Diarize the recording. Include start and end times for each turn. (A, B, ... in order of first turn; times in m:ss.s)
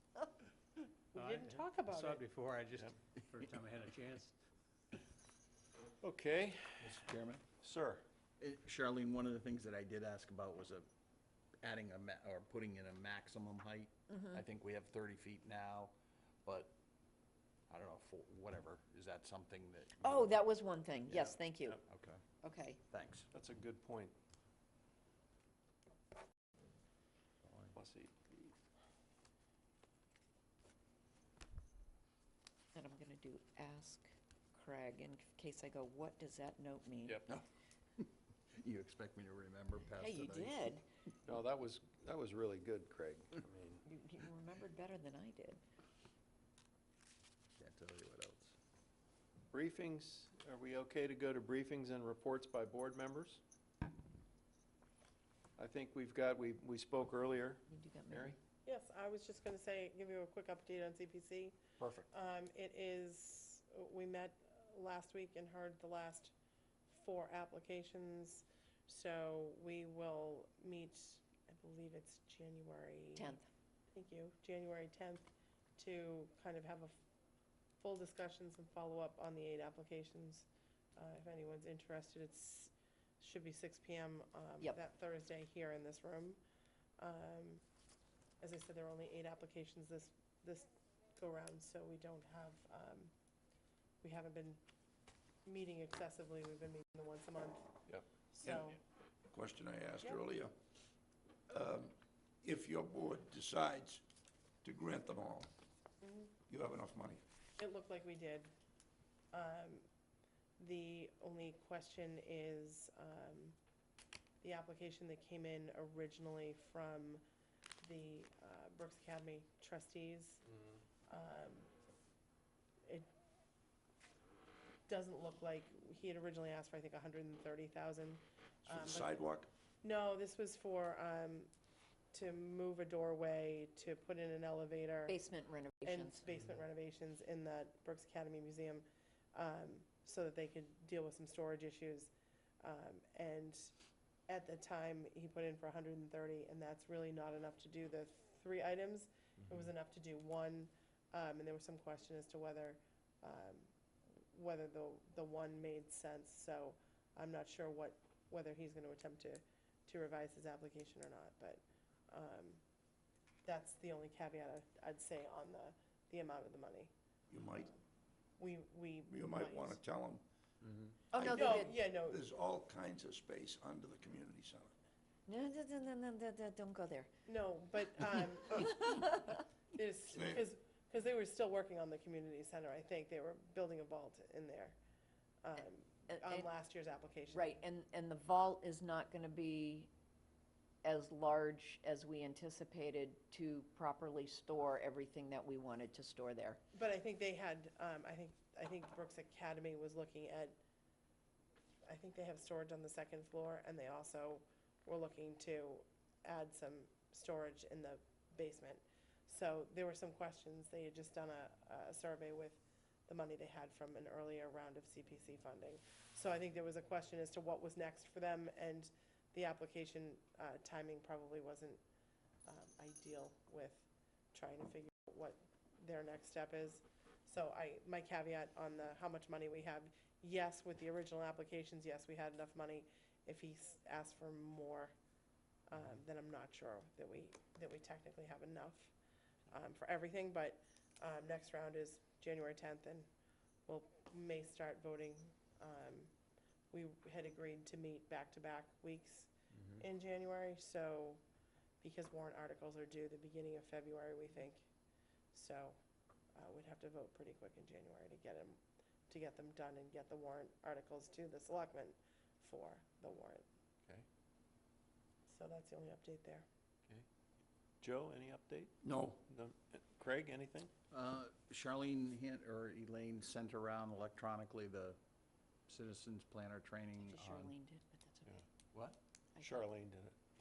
0:01.1-0:02.2 A
0:01.2-0:04.3 B
0:06.0-0:07.1 C
0:06.8-0:07.4 D
0:07.6-0:08.0 C
0:08.4-0:10.9 D
0:11.6-0:15.9 D
0:14.1-0:14.4 E
0:16.4-0:16.7 D
0:17.7-0:20.3 D
0:20.0-0:21.8 E
0:21.1-0:21.4 D
0:21.9-0:22.2 D
0:22.4-0:22.8 E
0:22.9-0:23.3 D
0:23.3-0:24.1 C
0:27.5-0:27.7 D
0:27.7-0:28.5 C
0:32.7-0:37.2 E
0:37.0-0:37.3 C
0:38.0-0:40.6 D
0:39.9-0:40.8 E
0:41.3-0:43.8 C
0:43.8-0:45.6 E
0:47.6-0:48.6 D
0:49.5-0:53.4 C
0:55.6-0:58.4 C
0:57.7-0:58.4 E
0:58.6-1:01.6 A
1:01.8-1:02.1 C
1:02.1-1:06.3 A
1:06.9-1:13.4 A
1:13.2-1:13.5 E
1:13.9-1:17.0 A
1:17.8-1:26.4 A
1:27.0-1:27.6 A
1:28.4-1:33.1 A
1:34.0-1:34.6 A
1:35.4-1:37.7 A
1:38.3-1:38.8 A
1:39.3-1:40.5 F
1:41.5-1:44.0 F
1:44.6-1:45.5 F
1:46.0-1:46.3 A
1:46.5-1:47.2 F
1:47.6-1:48.5 A
1:49.3-1:49.8 A
1:50.6-1:53.6 A
1:54.4-1:57.2 A
1:57.8-2:00.4 A
2:01.1-2:01.7 A
2:04.9-2:09.2 A
2:08.7-2:09.5 F
2:09.8-2:11.5 A
2:12.1-2:15.2 A
2:15.1-2:16.2 E
2:15.8-2:23.7 A
2:24.3-2:42.6 A
2:43.4-2:46.9 A
2:47.3-2:47.8 F
2:48.4-2:49.8 A
2:49.1-2:50.2 F
2:51.1-2:51.8 E
2:51.2-2:52.2 A
2:51.2-2:54.7 F
2:55.3-2:57.1 E
2:57.2-2:59.1 A
2:58.5-2:59.3 E
2:59.7-3:04.8 A
3:00.1-3:00.5 F
3:05.4-3:07.5 A
3:06.1-3:06.5 E
3:07.3-3:09.9 E
3:10.8-3:16.6 E
3:16.7-3:20.6 A
3:21.8-3:41.8 A
3:42.4-3:54.9 A
3:55.7-3:58.9 A
3:59.5-4:03.1 A
4:03.7-4:06.1 A
4:06.7-4:11.2 A
4:11.8-4:14.7 A
4:15.3-4:15.8 A
4:16.3-4:23.4 A
4:25.2-4:26.4 A
4:27.8-4:28.7 C
4:28.8-4:29.2 F
4:29.2-4:30.7 C
4:30.9-4:35.0 D
4:35.7-4:37.5 D
4:37.0-4:38.4 E
4:39.4-4:40.1 C